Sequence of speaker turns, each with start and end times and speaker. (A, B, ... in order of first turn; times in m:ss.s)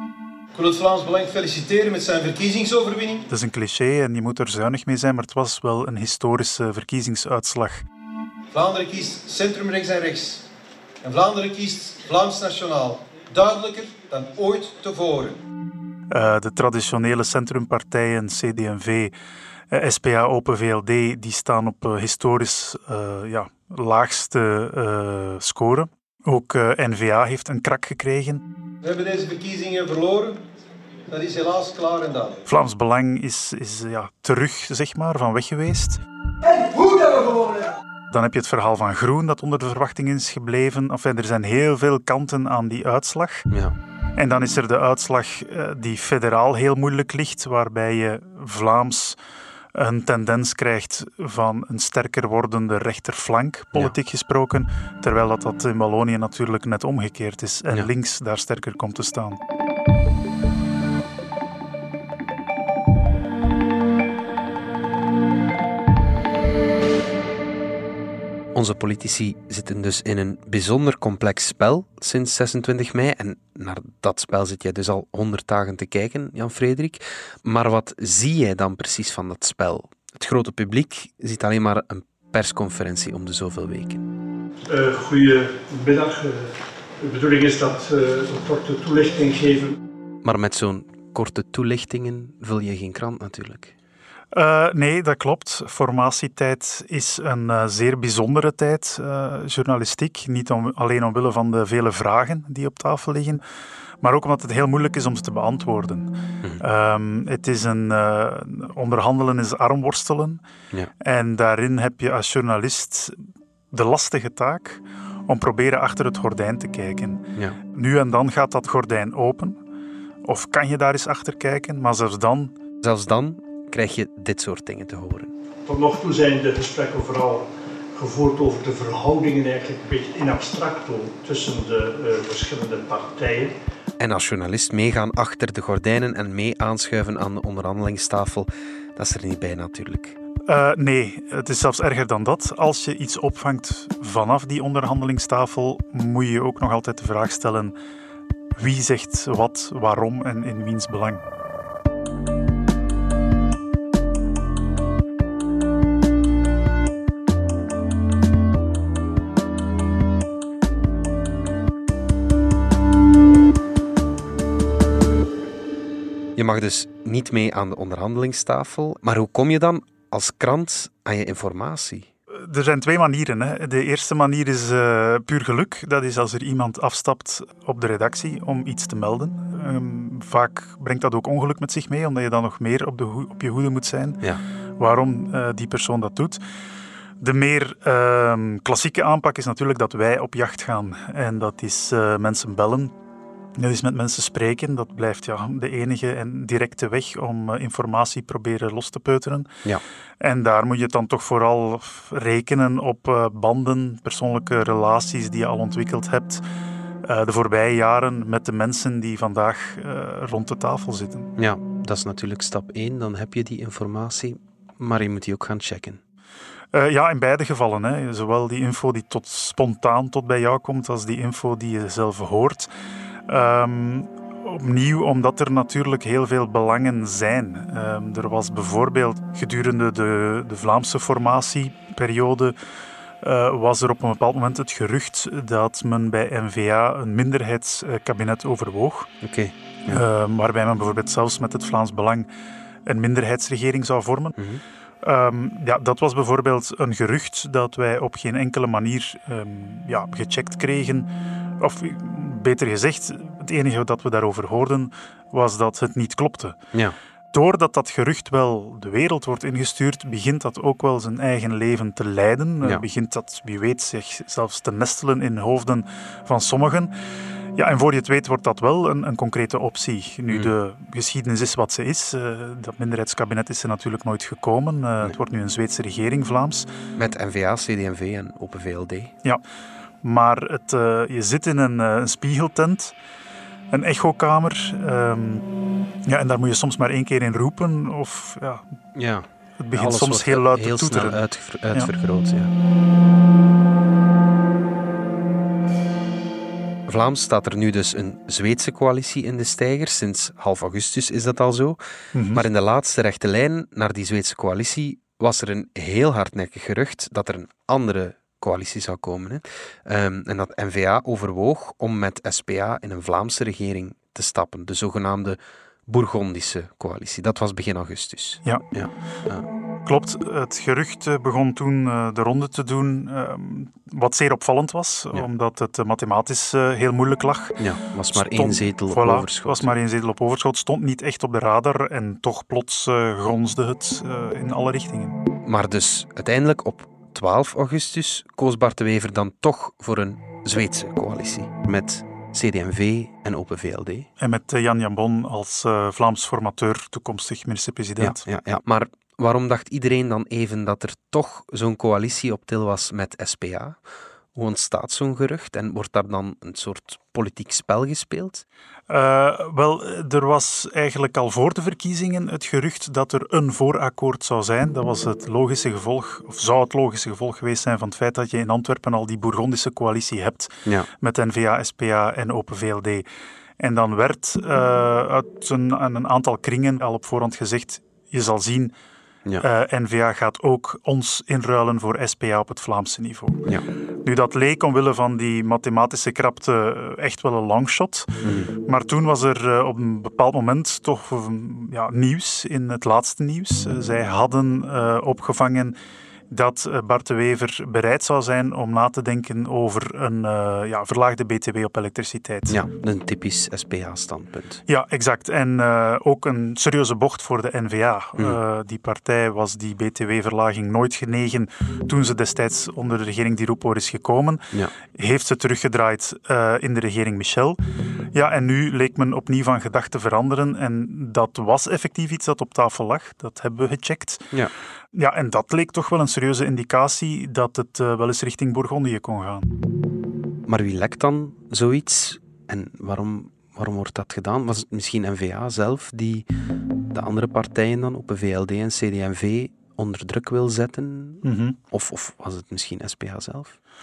0:00.6-0:03.3 A
0:03.3-0:07.9 B
0:08.5-0:10.5 A
0:11.0-0:15.4 A
0:16.1-0:19.2 B
0:19.7-0:28.4 B
0:28.8-0:30.4 A
0:31.1-0:32.4 A
0:32.5-0:36.0 B
0:36.5-0:37.7 A
0:38.1-0:43.5 B
0:43.5-0:43.8 C
0:44.2-0:49.2 B
0:49.7-0:59.4 B
1:08.6-1:24.0 C
1:24.7-1:29.8 D
1:30.2-1:33.7 C
1:34.3-1:43.4 B
1:44.0-1:50.4 B
1:51.0-1:53.2 B
1:53.7-1:59.6 B
2:00.3-2:02.5 B
2:02.8-2:05.3 C
2:05.7-2:13.6 D
2:14.0-2:20.2 C
2:20.5-2:27.8 B
2:28.6-2:31.2 B
2:46.4-2:52.1 C
2:52.3-3:04.2 B
3:04.8-3:06.4 B
3:07.2-3:12.9 B
3:13.6-3:19.5 B
3:20.2-3:26.4 B
3:27.0-3:31.3 B
3:31.4-3:36.0 C
3:36.7-3:42.7 B
3:43.3-3:52.6 B
3:53.2-3:59.1 B
3:59.2-4:00.0 C
3:59.9-4:02.3 B
4:02.8-4:04.4 B
4:04.4-4:04.6 C
4:05.0-4:16.6 B
4:17.3-4:26.9 B
4:27.6-4:36.7 B
4:37.0-4:39.1 C
4:40.0-4:43.0 B
4:43.7-4:45.4 B
4:46.1-4:48.6 B
4:49.0-4:52.5 C
4:49.6-4:51.2 B
4:56.9-5:01.8 C
5:02.1-5:02.4 B
5:02.3-5:19.5 C
5:19.8-5:27.6 B
5:27.6-5:29.7 C
5:28.1-5:35.2 B
5:35.4-5:44.1 C
5:44.2-5:48.2 B
5:48.0-5:53.8 C
5:54.4-5:58.4 C
5:58.9-6:13.1 B
6:13.6-6:18.8 B
6:19.4-6:23.4 B
6:24.0-6:35.8 B
6:28.2-6:28.5 C
6:36.3-6:42.6 B
6:42.5-6:44.6 C
6:44.7-6:57.6 B
6:58.1-7:04.3 B
7:04.9-7:09.5 B
7:10.5-7:16.3 C
7:16.9-7:23.6 C
7:21.2-7:21.6 B